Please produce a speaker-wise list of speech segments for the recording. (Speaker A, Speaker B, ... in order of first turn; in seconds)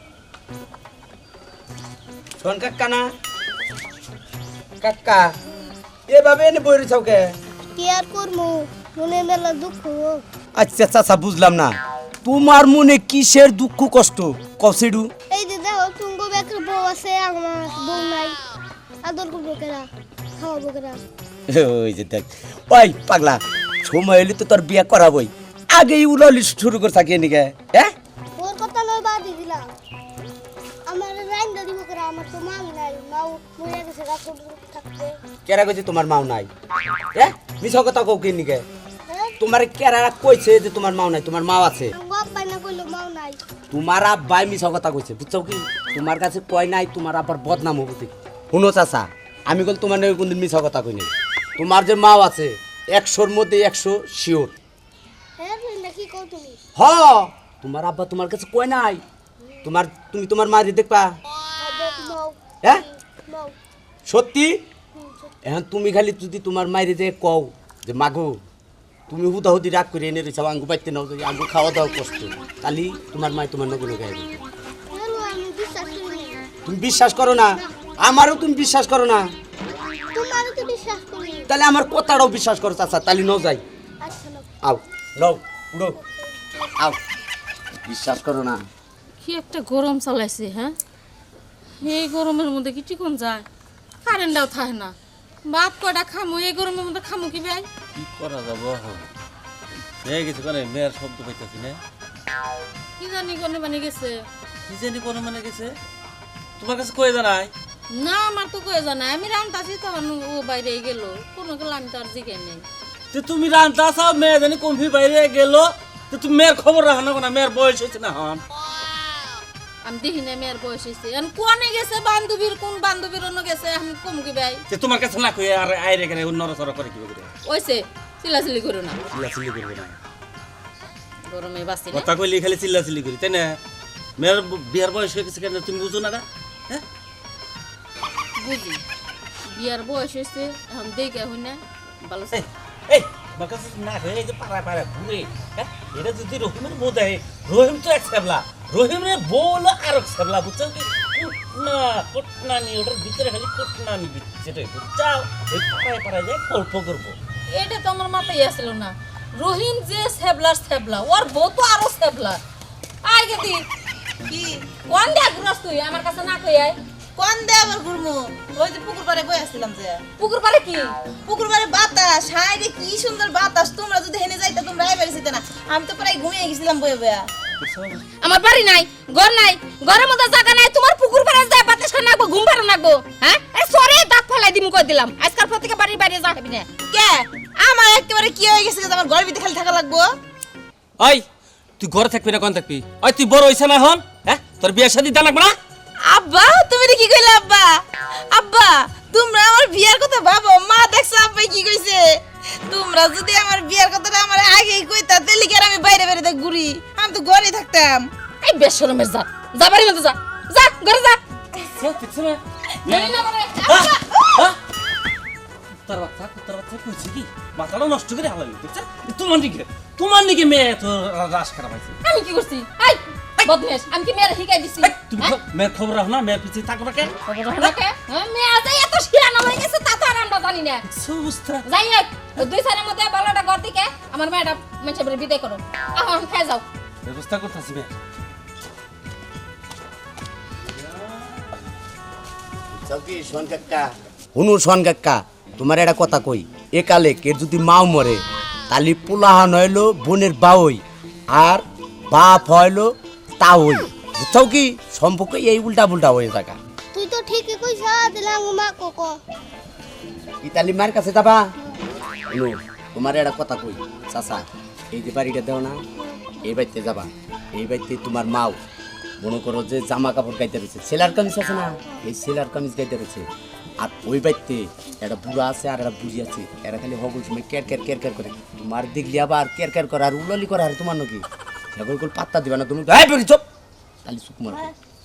Speaker A: 2.4-3.0, 4.8-5.3, 6.1-7.3, 10.6-11.7, 12.2-15.1, 21.5-27.9, 35.5-36.5, 37.1-38.6, 39.4-41.9, 43.7-54.5, 56.8-59.0, 59.6-61.1, 64.1-64.6, 65.4-68.4, 69.1-74.3, 76.6-79.2, 81.5-83.6, 84.6-86.0, 87.8-88.6, 242.7-256.6, 260.4-261.4, 262.3-265.8, 266.4-268.6, 269.2-273.2, 273.8-283.4, 284.0-284.6
Speaker B: 7.7-10.2, 15.3-18.4, 19.0-19.9, 20.4-21.0, 28.4-29.6, 30.9-35.1, 39.1-39.4, 41.9-43.4, 55.4-56.6, 61.6-63.5, 65.0-65.3, 74.9-76.4, 80.1-81.5, 84.0-84.4, 256.9-259.2, 266.0-266.4, 284.5-284.7
Speaker C: 89.2-90.8, 91.8-93.5, 94.0-94.9, 95.5-97.7, 103.0-104.3, 107.9-112.6, 119.8-124.6, 127.4-129.0, 131.3-132.1, 138.4-138.8, 139.5-142.4, 157.5-162.4, 163.0-163.6, 164.8-166.8, 170.2-170.9, 178.2-186.7, 208.4-211.2, 212.9-214.0, 222.0-225.4, 227.2-230.8, 231.6-236.6
Speaker D: 97.9-99.1, 100.0-101.8, 104.7-105.8, 106.6-107.5, 113.1-118.4, 124.7-127.3, 129.3-129.9, 131.9-133.6, 134.2-136.8, 142.3-157.1, 177.6-178.0, 191.0-191.2, 191.8-195.5, 211.8-214.6, 215.8-221.9, 224.9-227.1, 230.9-231.6, 237.1-237.9, 240.8-241.3
Speaker E: 164.3-164.7, 167.2-170.0, 171.2-177.3, 186.9-190.1, 196.0-197.8, 198.3-208.1